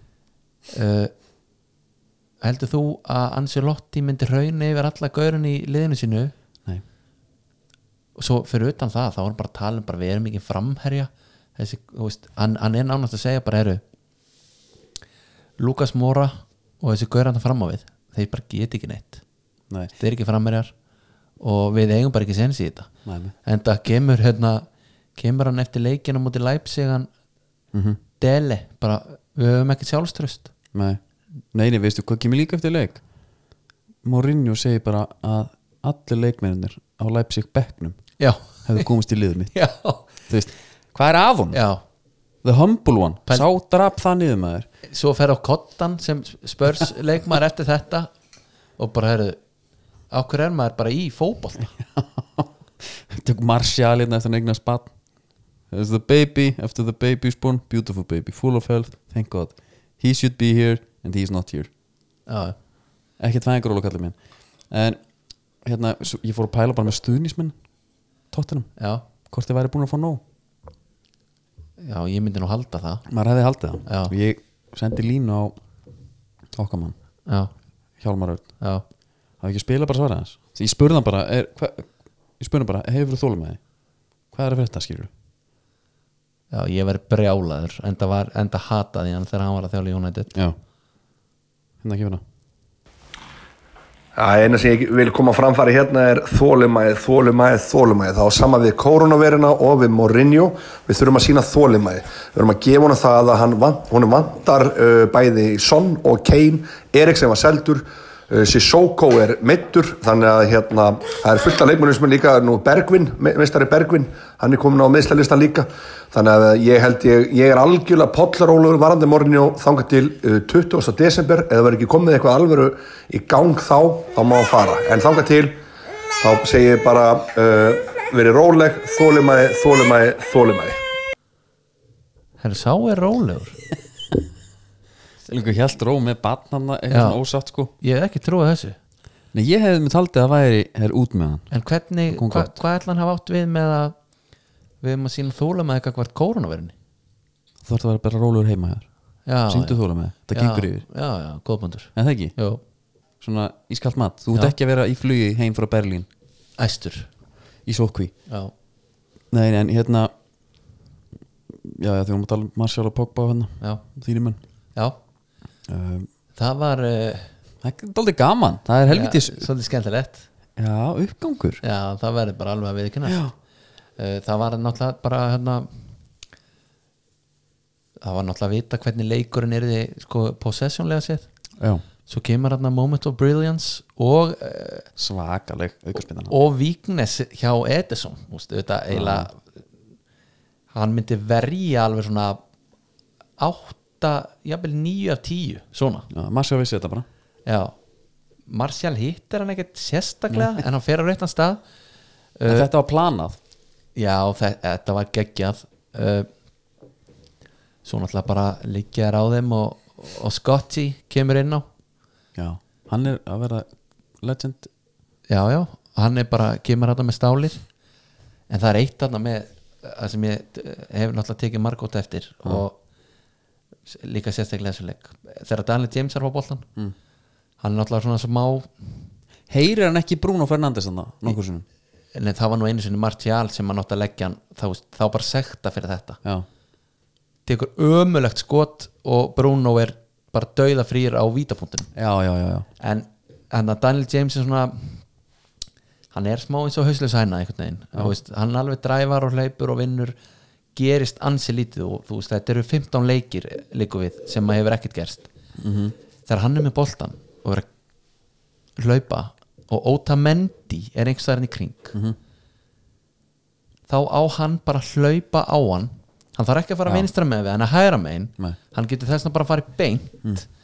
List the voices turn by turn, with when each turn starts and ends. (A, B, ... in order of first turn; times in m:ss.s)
0:00.7-0:01.1 A
0:02.4-0:06.3 A
0:08.2-0:13.8 A
0:15.6-0:19.2 A
0:20.0-0:20.7 A
0:21.4-0:22.9 A
0:23.0-0:23.3 B
0:23.4-0:27.1 A
0:27.7-0:28.0 B
0:28.2-0:30.5 A
0:30.7-0:31.0 B
0:31.5-0:33.0 B
0:34.0-0:38.0 B
0:38.2-0:38.9 A
0:38.6-0:39.5 B
0:39.5-0:40.1 A
0:40.3-0:41.6 B
0:41.5-0:41.8 A
0:42.4-0:44.7 B
0:44.8-0:48.1 A
0:48.8-0:49.4 A
0:50.1-0:51.7 A
0:51.8-0:54.9 B
0:55.7-1:01.7 B
1:02.3-1:02.6 A
1:03.2-1:04.2 B
1:04.7-1:05.0 B
1:05.6-1:07.5 B
1:08.3-1:08.7 B
1:08.8-1:09.0 A
1:09.2-1:10.2 B
1:11.8-1:13.0 A
1:13.1-1:15.5 B
1:13.8-1:14.1 A
1:16.5-1:16.9 B
1:18.0-1:18.5 B
1:19.4-1:23.6 B
1:24.3-1:25.1 B
1:26.5-1:30.3 A
1:31.8-1:32.2 B
1:34.1-2:05.6 C
2:06.2-2:10.8 C
2:12.4-2:13.6 A
2:15.3-2:17.7 B
2:16.9-2:17.2 A
2:17.8-2:18.8 A
2:19.3-2:21.5 B
2:21.5-2:23.9 A
2:22.1-2:22.6 B
2:24.8-2:26.7 A
2:27.6-2:28.8 B
2:29.2-2:29.8 A
2:29.5-2:30.8 B
2:30.3-2:32.6 A
2:32.0-2:32.3 B
2:33.2-2:36.1 B
2:36.6-2:37.1 A
2:37.6-2:38.1 B
2:39.3-2:40.1 B
2:41.5-2:44.4 B
2:45.7-2:46.1 B
2:46.4-2:47.3 A
2:47.6-2:49.5 B
2:48.9-2:50.2 A
2:50.6-2:51.6 B
2:51.6-2:53.2 A
2:53.1-2:53.3 B
2:54.0-2:55.7 A
2:58.0-3:01.3 A
3:01.6-3:01.8 B
3:02.1-3:04.9 A
3:05.0-3:06.3 B
3:06.3-3:09.4 A
3:08.9-3:09.3 B
3:10.7-3:12.4 A
3:13.4-3:16.1 A
3:16.1-3:17.0 B
3:17.4-3:17.7 A
3:18.5-3:21.6 A
3:22.4-3:22.7 A
3:22.5-3:23.4 B
3:23.9-3:26.3 A
3:27.8-3:31.7 A
3:32.4-3:33.7 B
3:34.2-3:34.7 B
3:35.3-3:37.6 A
3:38.5-3:42.8 A
3:43.9-3:46.7 A
3:47.6-3:48.8 A
3:49.5-3:51.6 B
3:52.1-3:56.2 A
3:57.4-4:01.9 A
4:01.9-4:02.7 B
4:02.8-4:05.0 A
4:06.1-4:10.2 A
4:10.7-4:15.3 A
4:15.6-4:15.9 B
4:16.2-4:17.7 A
4:18.8-4:21.9 A
4:23.9-4:30.4 A